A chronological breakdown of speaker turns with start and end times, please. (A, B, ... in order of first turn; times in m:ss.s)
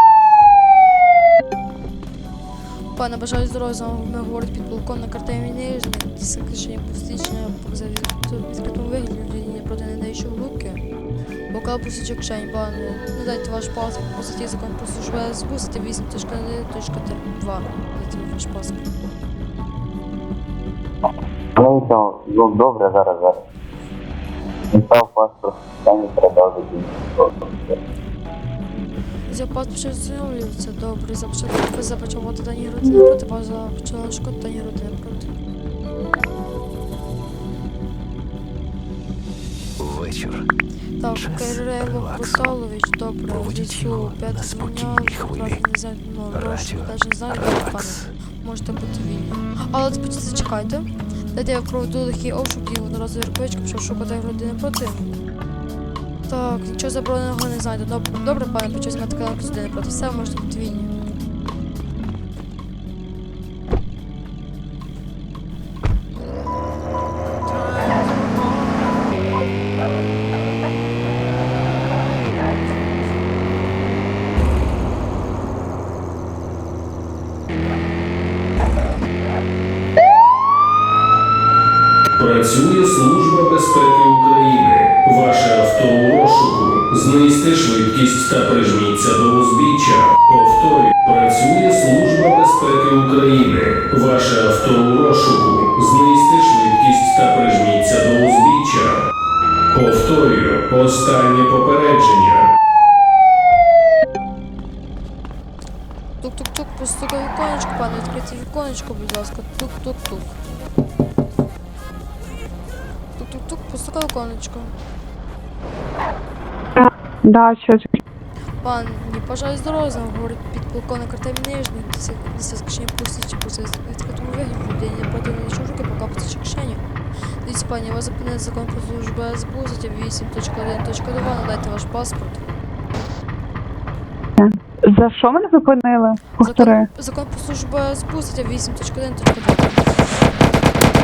0:02.9-0:10.8 A
0:11.5-0:18.8 A
0:21.6-0:23.4 B
0:24.7-0:27.8 B
0:29.3-0:35.3 A
0:39.8-0:40.5 C
0:41.0-0:55.1 A
0:43.4-0:45.5 C
0:46.4-0:46.9 C
0:47.5-0:47.8 C
0:56.3-1:00.9 A
1:22.2-1:39.0 D
1:39.7-1:42.5 D
1:46.2-1:50.3 A
1:53.2-1:54.7 A
1:56.8-1:58.0 E
1:58.6-2:06.8 A
2:07.4-2:12.5 A
2:14.4-2:16.9 E
2:16.4-2:19.8 A